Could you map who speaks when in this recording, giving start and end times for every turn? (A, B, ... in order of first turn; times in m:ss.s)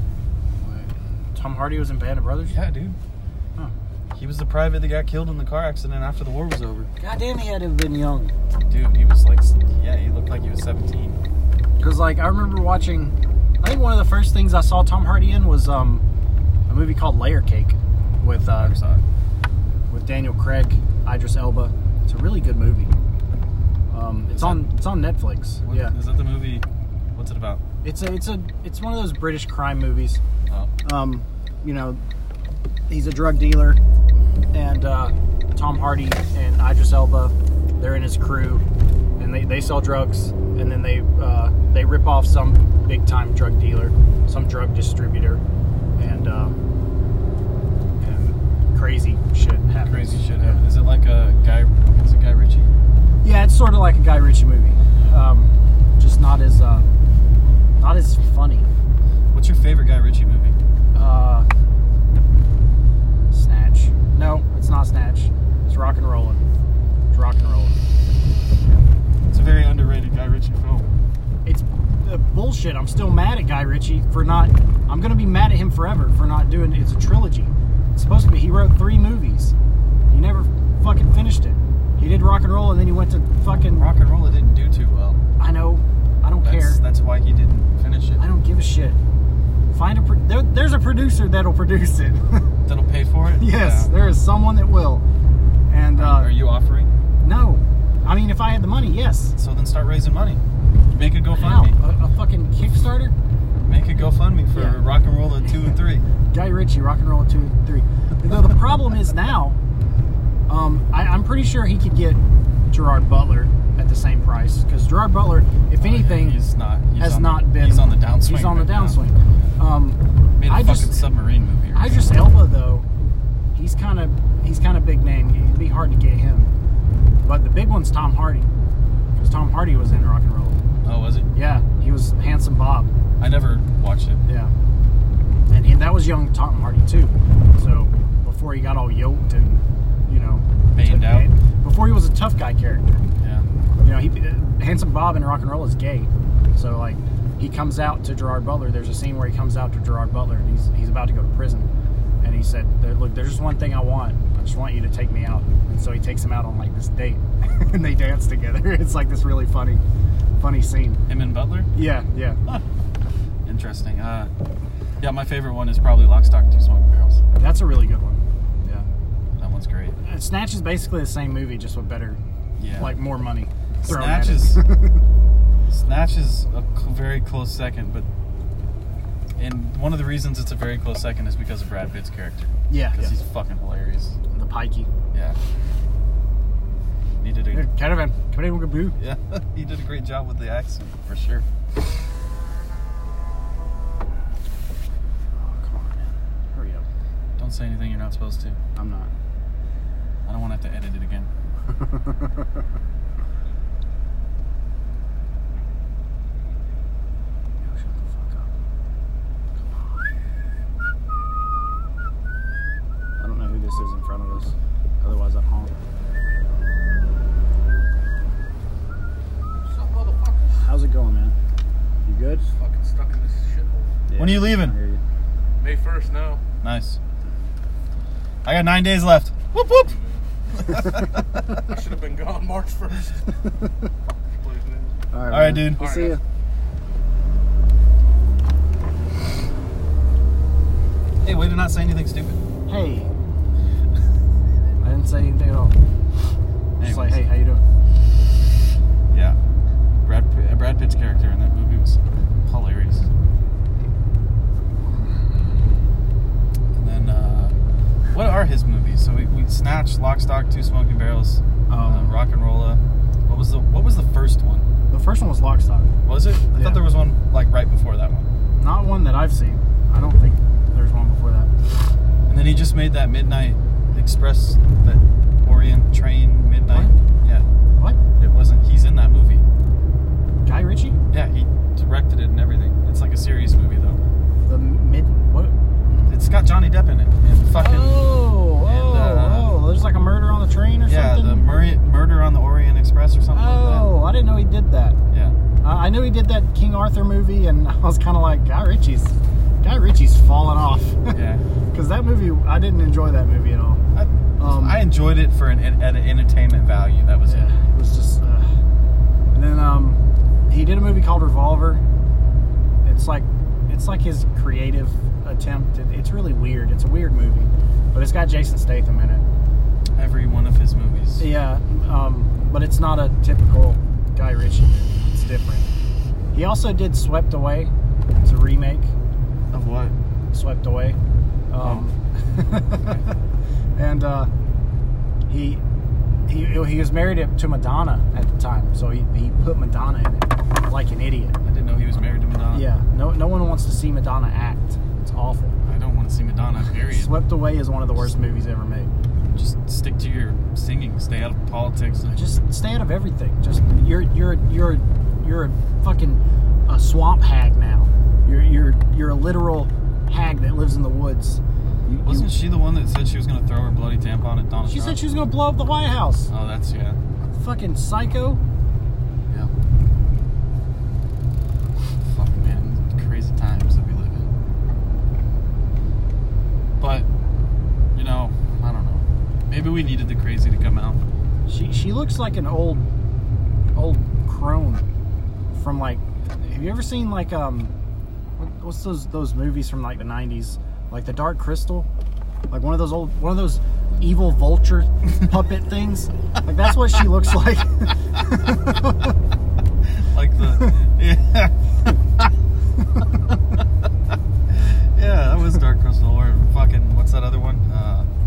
0:00.6-0:02.6 A
0:02.5-0:03.0 B
0:04.2-0:06.9 B
0:07.0-0:08.3 A
0:08.5-0:11.2 B
0:11.8-0:16.0 A
0:16.7-0:18.7 A
0:18.3-0:19.0 B
0:19.9-0:22.9 A
0:23.9-0:25.9 A
0:24.3-0:24.7 B
0:25.6-0:27.6 B
0:27.8-0:30.2 A
0:30.8-0:32.0 A
0:32.9-0:33.8 A
0:34.5-0:38.6 A
0:39.2-0:45.4 A
0:46.0-0:46.6 A
0:48.0-0:50.6 A
0:49.8-0:52.7 B
0:53.2-0:56.9 A
0:57.8-0:58.7 A
0:59.3-1:00.6 B
1:00.9-1:01.5 A
1:03.3-1:06.4 A
1:07.1-1:07.8 A
1:09.3-1:10.9 B
1:11.4-1:19.5 A
1:20.1-1:23.8 A
1:23.5-1:25.2 B
1:25.4-1:26.8 A
1:26.4-1:28.2 B
1:28.2-1:29.0 A
1:29.7-1:32.5 A
1:32.6-1:33.9 B
1:33.4-1:35.0 A
1:35.7-1:36.3 A
1:35.9-1:36.9 B
1:37.2-1:39.4 A
1:39.4-1:41.8 B
1:41.3-1:43.1 A
1:43.6-1:46.0 B
1:44.5-1:44.8 A
1:46.3-1:49.6 A
1:50.5-1:52.2 A
1:52.7-1:56.4 A
1:55.8-1:59.0 B
1:57.0-2:01.0 A
2:00.4-2:02.0 B
2:01.7-2:02.8 A
2:03.5-2:06.5 A
2:07.2-2:08.5 A
2:09.2-2:10.6 A
2:10.8-2:11.3 B
2:11.3-2:12.9 A
2:13.2-2:14.2 B
2:14.2-2:14.5 A
2:15.5-2:23.0 A
2:20.7-2:21.3 B
2:23.2-2:23.4 B
2:23.8-2:31.7 A
2:32.2-2:39.8 A
2:40.4-2:41.0 A
2:41.1-2:41.7 B
2:41.7-2:42.4 A
2:43.4-2:44.3 B
2:45.0-2:47.2 B
2:47.4-2:48.9 A
2:49.4-2:50.0 B
2:50.0-2:52.2 A
2:52.6-2:53.0 B
2:52.8-2:55.0 A
2:53.8-2:54.6 B
2:55.7-2:58.1 B
2:59.4-3:04.2 B
3:02.7-3:03.1 A
3:04.3-3:04.9 A
3:05.1-3:05.4 B
3:07.2-3:07.7 B
3:07.5-3:09.0 A
3:09.0-3:11.5 B
3:15.4-3:16.8 A
3:17.4-3:18.6 B
3:18.8-3:19.1 A
3:20.2-3:21.3 B
3:21.7-3:22.5 A
3:27.6-3:28.5 A
3:29.6-3:30.0 A
3:33.2-3:35.7 A
3:39.6-3:40.6 C
3:40.6-3:41.4 A
3:42.1-3:42.5 A
3:42.5-3:44.0 C
3:44.1-3:45.0 A
3:44.2-3:44.8 B
3:45.6-3:46.4 C
3:46.6-3:47.0 B
3:48.4-3:49.9 B
3:49.8-3:50.2 C
3:50.5-3:51.6 B
3:51.6-3:53.4 C
3:54.2-3:55.0 C
3:55.1-3:56.2 A
3:55.3-3:55.8 B
3:55.8-3:56.2 C
4:01.2-4:02.4 B
4:02.7-4:03.1 A
4:04.8-4:05.8 A
4:06.8-4:07.2 B
4:06.8-4:07.6 A
4:09.1-4:09.4 B
4:10.0-4:13.1 B
4:16.7-4:17.6 B
4:18.1-4:24.7 B
4:21.7-4:22.2 A
4:24.9-4:25.9 A
4:26.0-4:28.3 B
4:26.5-4:26.8 A
4:28.6-4:31.5 A
4:32.3-4:37.4 B
4:38.2-4:39.4 B
4:40.4-4:41.0 A
4:41.1-4:44.0 B
4:44.5-4:46.0 A
4:46.1-4:49.5 B
4:47.5-4:51.5 A
4:50.9-4:53.9 B
4:53.3-4:55.0 A
4:55.1-4:55.4 B
4:55.6-5:01.2 A
5:01.1-5:01.4 B
5:01.7-5:03.8 A
5:03.9-5:07.5 B
5:04.4-5:04.8 A
5:07.2-5:08.5 A
5:09.3-5:11.8 A
5:12.8-5:19.2 A
5:19.9-5:21.3 B
5:21.2-5:25.7 A
5:26.3-5:27.7 A
5:28.2-5:28.9 A
5:29.5-5:30.0 B
5:30.3-5:31.0 A
5:31.5-5:33.0 A
5:31.6-5:31.9 B
5:32.7-5:33.0 B
5:33.8-5:34.3 A
5:35.3-5:35.6 A
5:36.3-5:41.4 A
5:41.4-5:42.7 B
5:42.5-5:45.6 A
5:45.6-5:47.1 B
5:46.9-5:48.9 A
5:49.3-5:52.1 B
5:52.0-6:02.3 A
6:02.0-6:05.0 B
6:04.6-6:06.3 A
6:06.3-6:07.0 B
6:07.2-6:08.4 A
6:12.1-6:14.3 B
6:16.8-6:17.1 B
6:17.9-6:21.0 B
6:21.5-6:22.8 A
6:23.7-6:24.8 A
6:25.5-6:27.7 A
6:28.4-6:31.9 A
6:32.5-6:39.1 A
6:39.9-6:41.5 B
6:44.5-6:48.1 B